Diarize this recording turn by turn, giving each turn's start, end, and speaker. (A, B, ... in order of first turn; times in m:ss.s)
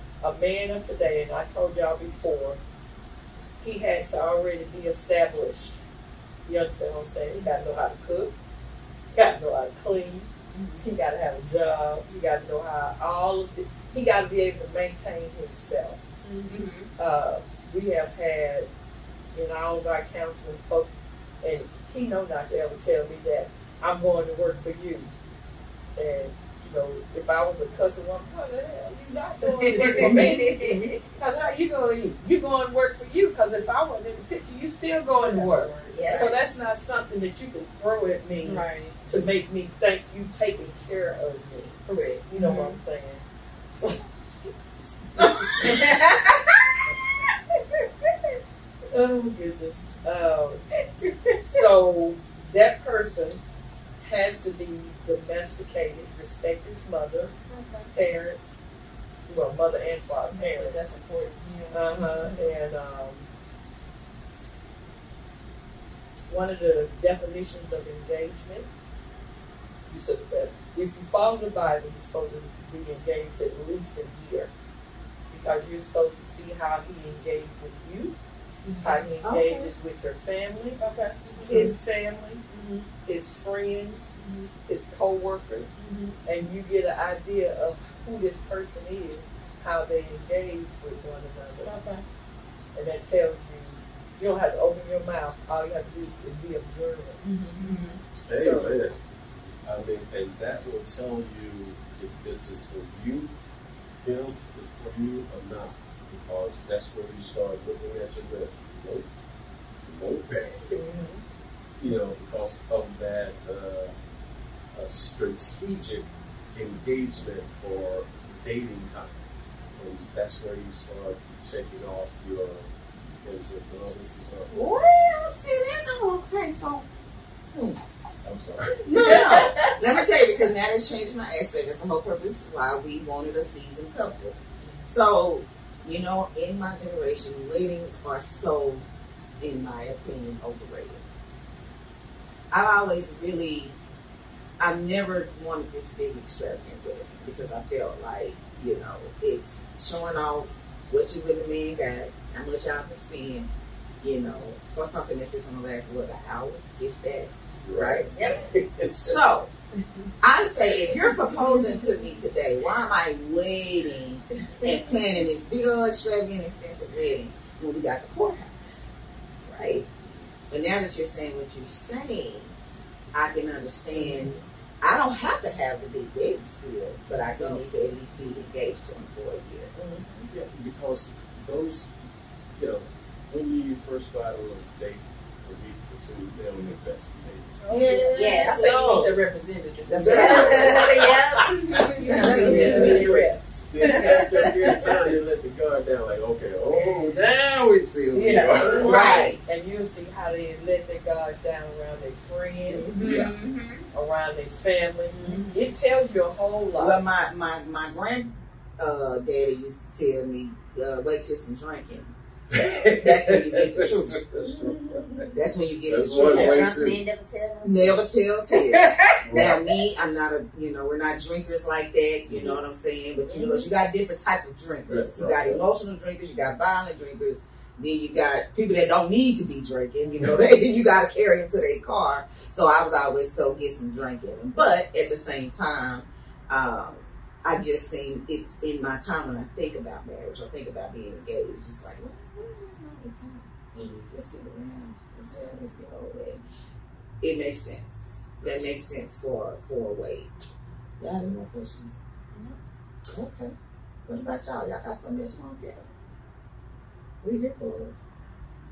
0:00.2-0:02.6 A
0:03.6-0:05.8 A
0:06.5-0:08.3 A
0:07.3-0:07.6 B
0:09.1-0:16.0 A
0:10.5-0:10.8 B
0:16.3-0:16.9 C
0:17.0-0:18.7 A
0:19.3-0:25.1 A
0:26.0-0:45.5 A
0:29.4-0:31.0 C
0:29.8-0:30.7 B
0:35.2-0:36.3 B
0:35.9-0:36.3 C
0:38.4-0:39.0 B
0:41.9-0:42.8 B
0:45.5-0:46.6 C
0:48.9-0:50.6 A
0:51.0-0:51.6 C
0:51.5-0:53.4 A
0:54.0-0:57.3 A
0:57.5-0:57.9 B
0:57.9-0:58.6 A
0:59.3-1:00.8 A
1:00.3-1:02.4 B
1:01.7-1:03.3 A
1:06.3-1:08.7 A
1:09.9-1:14.5 A
1:15.3-1:18.2 A
1:18.6-1:19.7 B
1:18.8-1:20.8 A
1:19.2-1:19.6 D
1:20.8-1:21.8 B
1:21.4-1:22.4 A
1:22.5-1:22.9 B
1:23.0-1:24.1 A
1:24.2-1:24.5 B
1:24.6-1:31.7 A
1:25.8-1:26.2 B
1:31.6-1:32.0 B
1:32.8-1:37.2 A
1:37.2-1:38.0 B
1:37.6-1:38.0 C
1:38.3-1:39.0 E
1:38.3-1:38.7 A
1:39.6-1:43.3 E
1:44.0-1:49.1 E
1:49.8-1:50.8 E
1:50.8-1:51.2 B
1:51.8-1:53.9 E
1:54.7-1:59.2 E
1:59.8-2:04.6 E
2:04.5-2:06.9 D
2:07.5-2:07.8 D
2:08.2-2:09.3 E
2:08.8-2:18.8 D
2:08.9-2:09.8 C
2:19.4-2:21.0 D
2:22.5-2:23.8 D
2:24.6-2:38.1 D
2:37.6-2:39.2 E
2:38.1-2:38.4 C
2:39.0-2:39.5 D
2:40.2-2:48.8 D
2:49.4-2:49.9 D
2:50.5-2:52.6 D
2:53.1-2:59.7 D
2:54.0-2:54.4 A
2:57.1-2:57.7 A
2:59.8-3:00.3 A
3:00.3-3:01.9 E
3:02.6-3:07.6 E
3:07.6-3:10.9 B
3:07.7-3:08.8 D
3:08.1-3:09.1 C
3:09.9-3:10.9 D
3:10.0-3:19.0 E
3:10.0-3:13.1 C
3:12.0-3:13.4 B
3:12.1-3:13.0 D
3:12.3-3:13.3 A
3:13.8-3:14.8 C
3:13.9-3:14.2 B
3:16.8-3:17.0 B
3:18.1-3:18.8 B
3:18.8-3:19.3 C
3:18.8-3:19.4 D
3:18.9-3:22.9 A
3:22.9-3:23.8 C
3:23.0-3:23.3 E
3:23.9-3:27.0 A
3:25.1-3:25.6 B
3:26.8-3:32.1 D
3:32.5-3:35.3 E
3:33.0-3:34.2 D
3:34.4-3:35.4 B
3:35.3-3:36.8 D
3:35.8-3:37.0 E
3:36.1-3:39.8 C
3:37.6-4:03.5 D
3:39.2-3:39.6 E
3:42.3-3:42.6 E
3:43.4-3:43.7 C
3:44.9-3:45.7 E
4:03.7-4:04.1 E
4:04.1-4:06.4 D
4:07.2-4:10.4 D
4:08.4-4:08.8 E
4:11.0-4:12.0 D
4:13.1-4:13.5 D
4:14.1-4:15.9 D
4:17.2-4:17.9 D